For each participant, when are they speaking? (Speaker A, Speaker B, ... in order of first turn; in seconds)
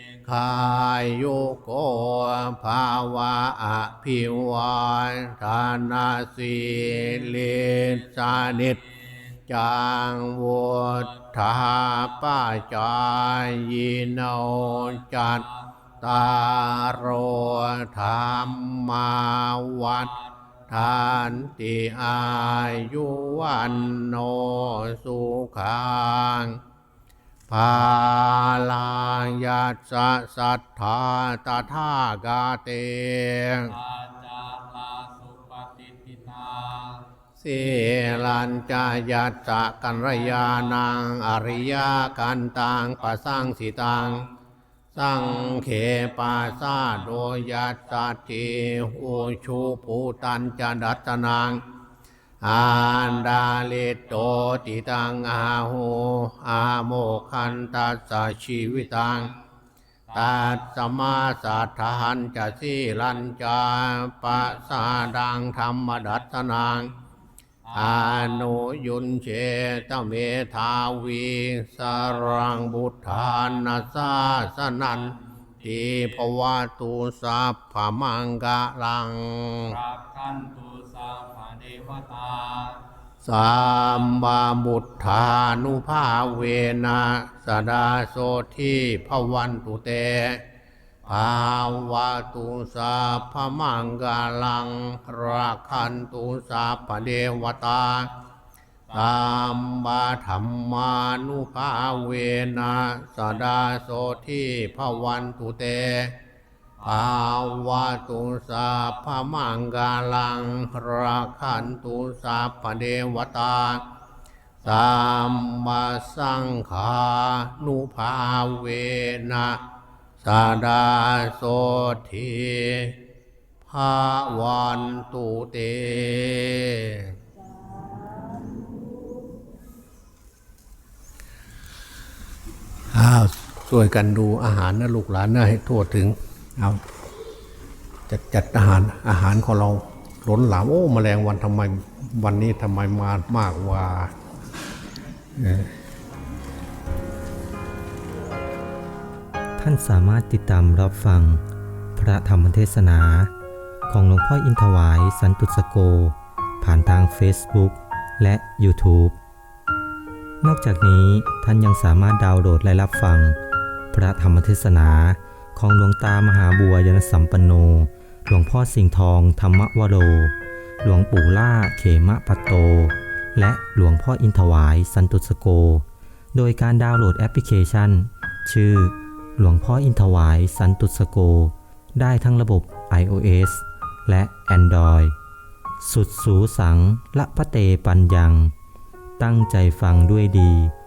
Speaker A: 0.2-8.8, 9.5-15.5, 16.0-20.1, 20.7-26.6, 27.5-33.7, 37.4-44.3, 44.9-51.6, 52.4-59.3, 60.1-66.9, 67.7-79.8, 83.2-90.4, 91.1-98.1, 98.9-106.2, 106.8-113.8, 114.6-119.6, 120.2-123.0, 123.7-127.1, 132.9-136.8, 138.1-144.1, 145.4-145.7
Speaker B: 14.9-15.4, 33.7-37.1, 60.1-60.6, 67.7-68.7, 79.7-82.8, 106.8-107.3
Speaker C: 149.6-151.4, 151.9-153.3, 153.9-159.2, 160.4-163.4, 163.9-185.2, 185.8-188.5, 189.2-190.7